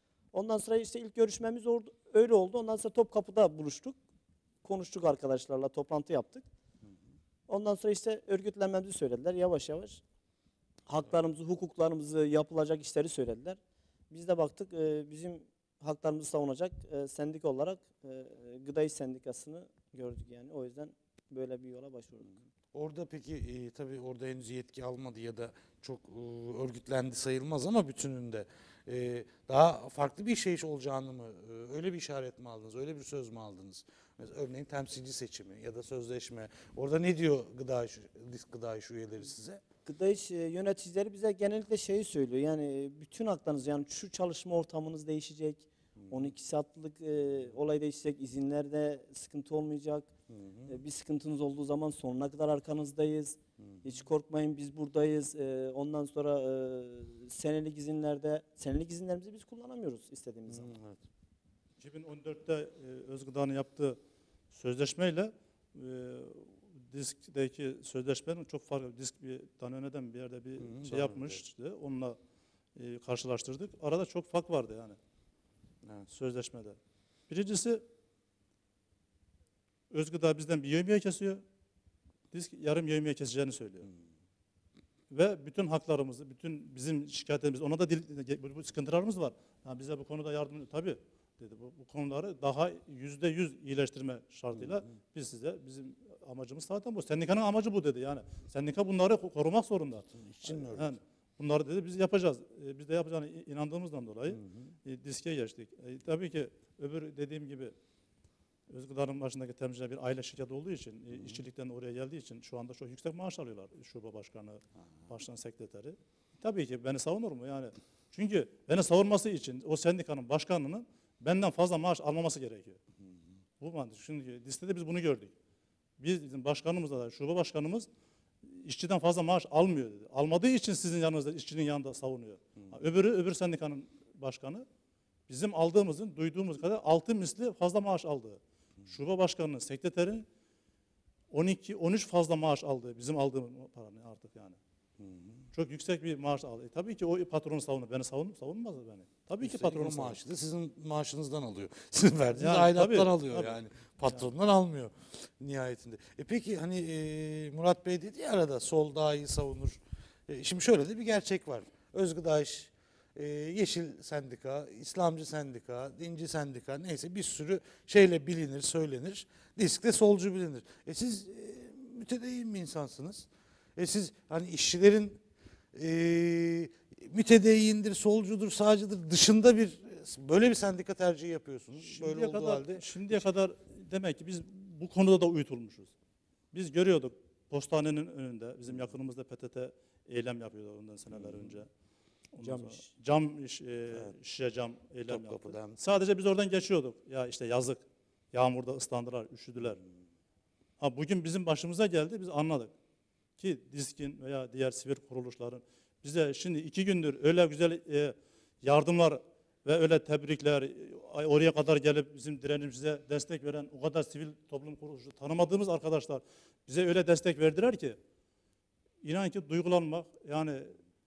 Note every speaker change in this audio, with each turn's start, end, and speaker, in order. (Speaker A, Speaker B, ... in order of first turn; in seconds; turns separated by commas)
Speaker A: 0.3-4.0, Speaker A: 4.6-6.5, Speaker A: 7.5-10.0, Speaker A: 10.9-13.6, Speaker A: 14.1-22.3, Speaker B: 22.7-39.6, Speaker A: 39.9-50.1, Speaker B: 46.0-46.3, Speaker B: 50.3-50.8, Speaker A: 50.7-60.7, Speaker B: 60.5-61.0, Speaker C: 61.8-64.0, Speaker C: 64.5-72.2, Speaker B: 70.6-71.4, Speaker C: 72.8-75.0, Speaker C: 76.1-76.8, Speaker C: 77.3-77.8, Speaker C: 79.9-81.4, Speaker C: 82.3-83.9, Speaker C: 85.1-107.7, Speaker B: 94.5-94.8, Speaker B: 100.1-101.0, Speaker B: 104.3-104.7, Speaker C: 108.7-122.8, Speaker C: 123.6-125.3, Speaker C: 126.0-127.9, Speaker C: 128.5-134.7, Speaker C: 135.3-140.2, Speaker C: 141.3-144.6, Speaker B: 145.0-145.5, Speaker C: 145.5-150.2, Speaker B: 149.4-175.2, Speaker C: 152.3-153.6, Speaker B: 175.7-183.3, Speaker C: 181.8-185.9, Speaker C: 186.5-191.7, Speaker B: 191.1-191.5, Speaker C: 192.3-199.8, Speaker A: 192.4-192.8, Speaker B: 195.1-195.8, Speaker C: 200.8-202.7, Speaker C: 203.4-218.0, Speaker C: 219.0-220.8